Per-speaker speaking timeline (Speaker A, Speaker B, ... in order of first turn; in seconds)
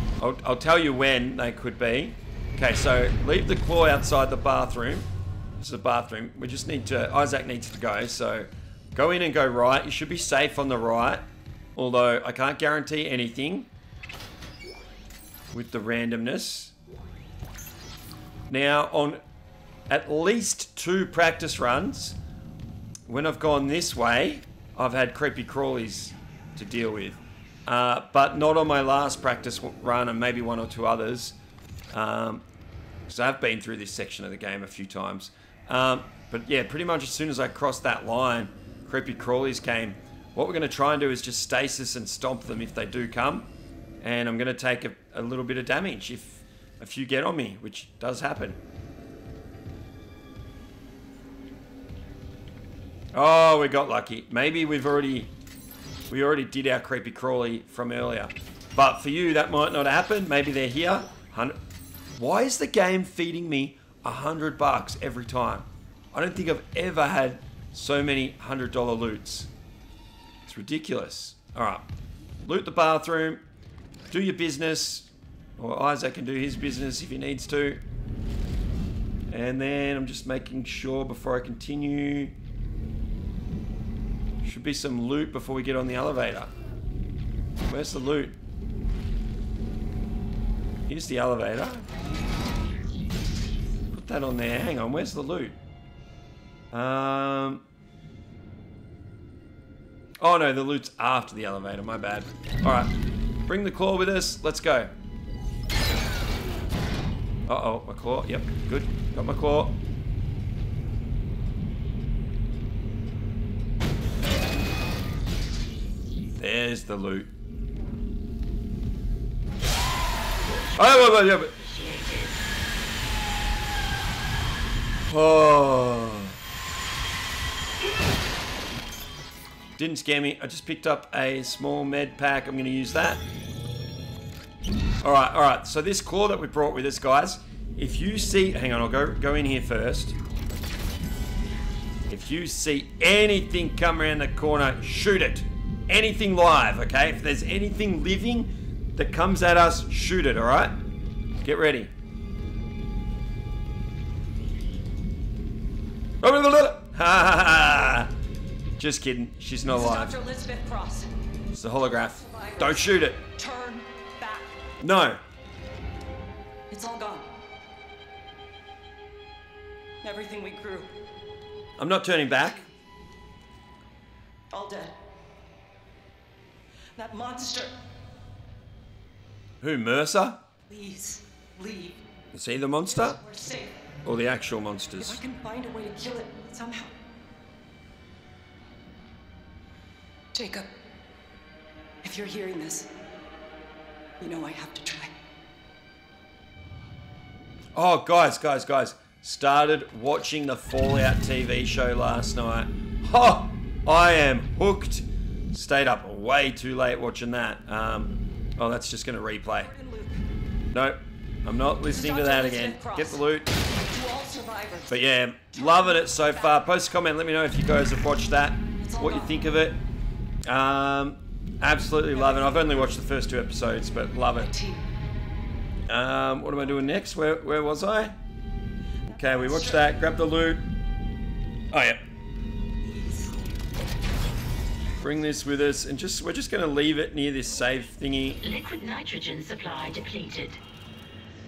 Speaker A: 0.2-5.1, 5.6-13.7, 15.5-16.7, 18.5-19.2, 19.9-22.2, 23.1-31.4, 31.9-32.4, 33.1-43.5, 44.0-48.6, 53.1-55.3, 56.1-61.6, 62.2-69.5, 70.5-71.9, 72.4-73.4, 74.1-77.8, 79.3-82.3, 84.4-86.5, 87.7-88.4, 90.9-91.9, 93.9-95.6, 96.7-97.6, 100.2-102.9, 103.5-104.9, 107.5-109.8, 116.4-117.3, 120.8-121.5, 125.1-126.3, 129.8-133.2, 135.0-140.2, 142.1-150.8, 151.4-151.9, 156.2-158.1, 158.8-160.2, 161.5-163.2, 164.8-165.2, 171.8-172.7, 179.6-180.4, 182.3-183.2, 184.1-185.2, 197.8-209.7, 210.7-213.5, 214.9-219.8, 220.4-224.5, 225.9-228.2, 229.2-230.7, 231.7-232.0, 235.0-238.4
Speaker B: 120.7-122.4, 238.4-240.6
Speaker C: 159.6-161.1, 162.0-164.5, 166.7-167.3, 170.0-170.9, 174.5-175.0, 177.0-177.7, 180.7-182.0, 182.9-183.8, 185.0-186.9, 190.3-190.7, 192.0-192.9, 194.2-195.1, 209.6-210.1, 211.8-215.0, 215.5-216.7, 218.8-219.5, 222.1-223.0, 224.3-224.9, 226.6-227.0, 229.1-229.9, 232.9-233.4